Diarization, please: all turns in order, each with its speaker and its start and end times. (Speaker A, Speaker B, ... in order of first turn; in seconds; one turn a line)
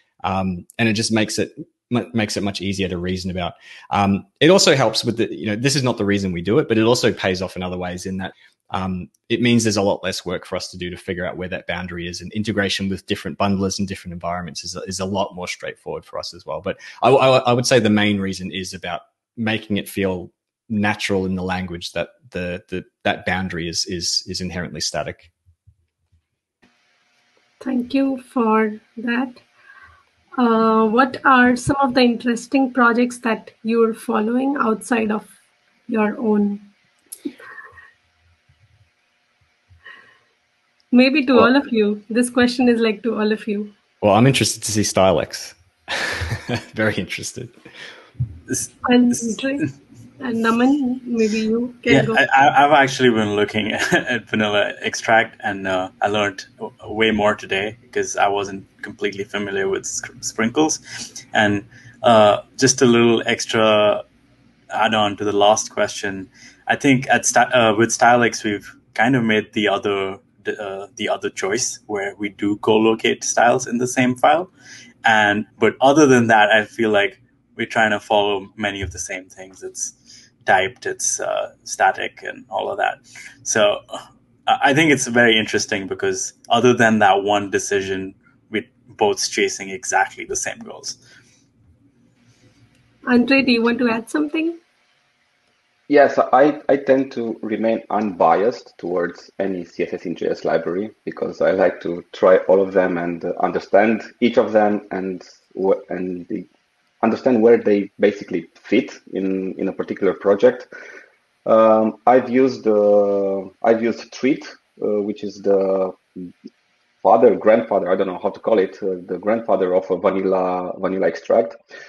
Speaker A: 0.2-25.3
Speaker B: 27.6-29.4
Speaker B: 30.4-35.3
Speaker B: 35.9-36.7
Speaker B: 40.9-43.7
Speaker A: 44.0-47.5
Speaker B: 48.8-52.2
Speaker C: 51.9-60.8
Speaker C: 61.3-64.0
Speaker C: 64.7-74.5
Speaker C: 75.0-91.0
Speaker B: 93.0-94.6
Speaker D: 95.9-106.5
Speaker D: 107.0-110.7
Speaker D: 111.5-116.3
Speaker D: 117.0-121.6